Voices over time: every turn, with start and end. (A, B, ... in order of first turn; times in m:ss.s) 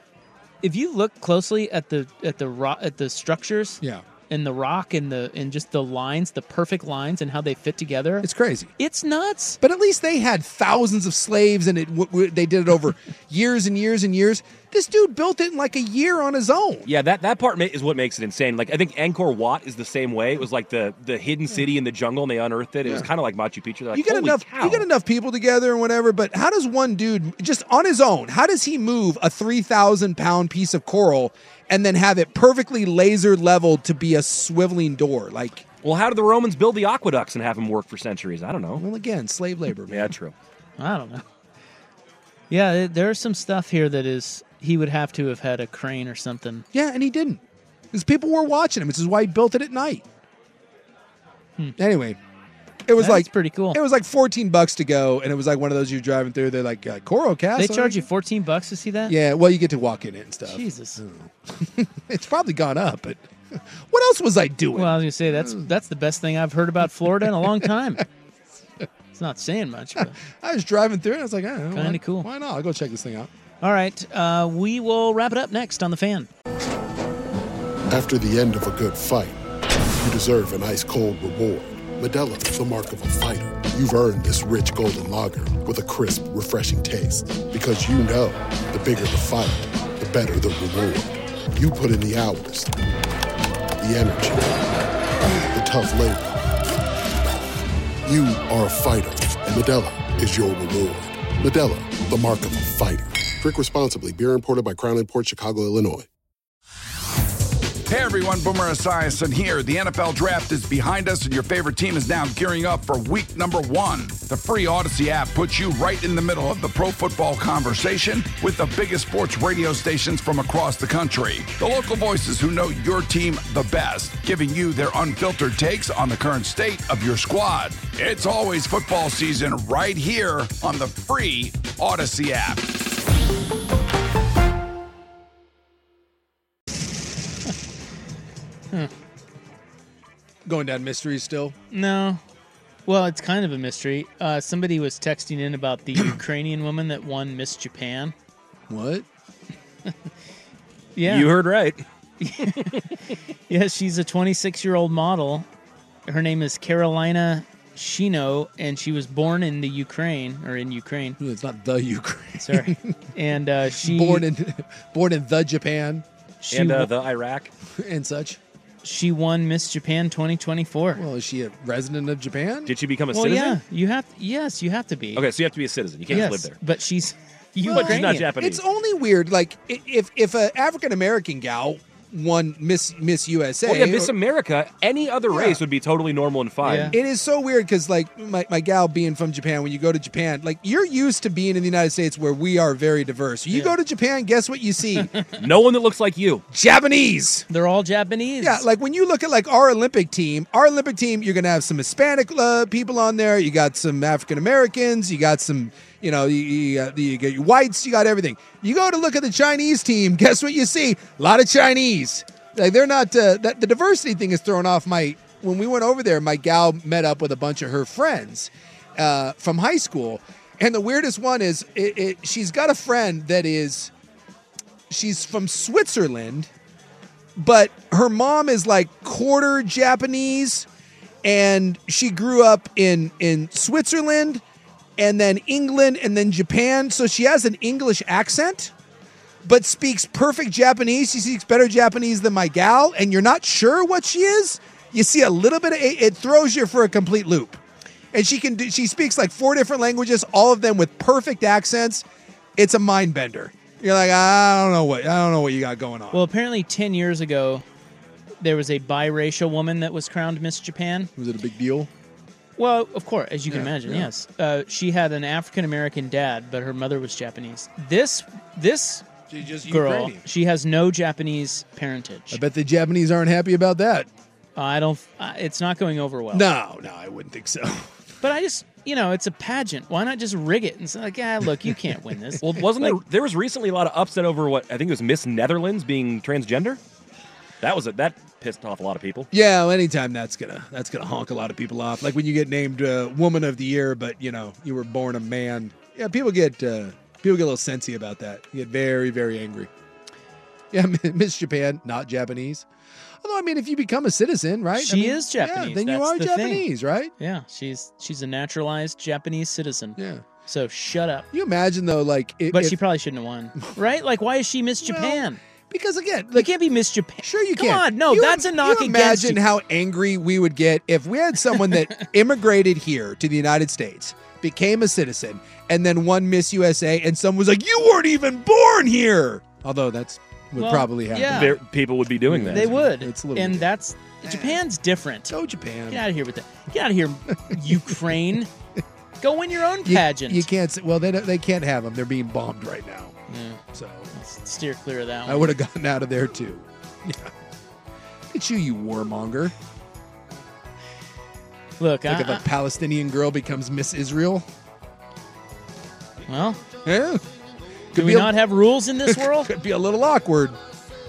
0:00.6-0:09.6 A
0:08.2-0:08.7 B
0:09.6-0:16.9 B
0:16.8-0:24.8 C
0:23.9-0:35.6 B
0:35.8-0:38.8 C
0:38.8-0:40.1 B
0:39.9-0:40.3 C
0:40.8-0:41.2 A
0:42.5-0:46.6 A
0:46.7-0:50.0 B
0:51.8-0:52.2 B
0:52.8-0:58.0 B
0:53.0-0:53.8 A
0:57.6-0:59.1 A
0:59.1-1:05.6 B
1:00.5-1:01.0 A
1:04.7-1:08.0 A
1:07.2-1:07.6 B
1:09.1-1:10.2 A
1:10.0-1:13.3 B
1:11.7-1:12.3 A
1:13.6-1:16.3 A
1:17.9-1:19.4 D
1:19.9-1:32.7 D
1:33.8-1:34.6 D
1:35.5-1:36.4 D
1:38.0-1:46.1 D
1:47.9-2:12.6 E
2:20.4-2:21.6 B
2:21.7-2:22.2 A
2:22.8-2:28.1 A
2:28.7-2:29.0 B
2:31.0-2:31.3 A
2:31.0-2:31.8 C
2:32.2-2:32.8 A
2:33.5-2:35.5 A
2:36.1-2:41.2 A
2:41.2-2:42.9 B
2:42.4-2:44.2 A
2:43.8-2:46.0 B
2:46.4-2:46.9 A
2:46.5-2:47.5 C
2:47.8-2:48.4 B
2:48.8-2:51.0 A
2:50.9-2:52.7 B
2:52.6-2:53.6 C
2:53.1-2:55.2 A
2:55.1-2:56.6 C
2:56.1-2:58.3 A
2:57.6-3:04.1 B
2:57.7-2:58.6 C
3:03.6-3:07.0 C
3:05.3-3:05.6 B
3:06.6-3:07.0 A
3:06.9-3:15.1 B
3:15.4-3:16.4 C
3:16.5-3:17.4 B
3:17.5-3:18.6 A
3:18.4-3:43.9 B
3:44.9-3:46.5 B
3:47.4-3:50.7 B
3:51.2-3:54.4 B
3:55.0-3:58.7 B
3:59.4-4:07.6 B
4:08.1-4:12.0 B
4:12.6-4:16.2 B
4:16.1-4:17.6 A
4:18.4-4:21.1 A
4:21.2-4:21.9 B
4:22.6-4:29.1 A
4:23.5-4:24.1 B
4:29.3-4:30.2 B
4:29.6-4:32.4 A
4:32.3-4:34.1 B
4:34.6-4:36.5 A
4:36.3-4:37.9 B
4:38.2-4:42.9 A
4:42.4-4:46.8 C
4:47.6-4:49.3 C
4:49.3-4:59.7 B
5:00.7-5:02.6 B
5:03.2-5:07.1 B
5:04.8-5:06.6 A
5:07.2-5:11.3 A
5:10.0-5:10.2 B
5:11.3-5:12.8 B
5:12.5-5:15.4 A
5:14.8-5:16.5 B
5:16.3-5:19.4 A
5:17.2-5:31.6 B
5:30.6-5:31.6 A
5:31.2-5:32.8 C
5:32.2-5:33.7 B
5:32.5-5:35.3 A
5:34.2-5:34.6 B
5:35.3-5:36.0 B
5:35.9-5:38.5 A
5:37.5-5:38.0 B
5:39.2-5:40.5 A
5:39.8-5:43.2 B
5:43.3-5:43.6 A
5:43.7-5:44.1 B
5:44.1-5:45.5 A
5:45.2-5:47.3 B
5:48.3-5:49.5 B
5:51.8-5:52.4 A
5:52.1-5:54.4 B
5:56.3-5:56.6 A
5:56.8-5:57.2 B
5:57.9-5:58.3 B
5:57.9-5:59.5 A
5:59.0-6:00.6 B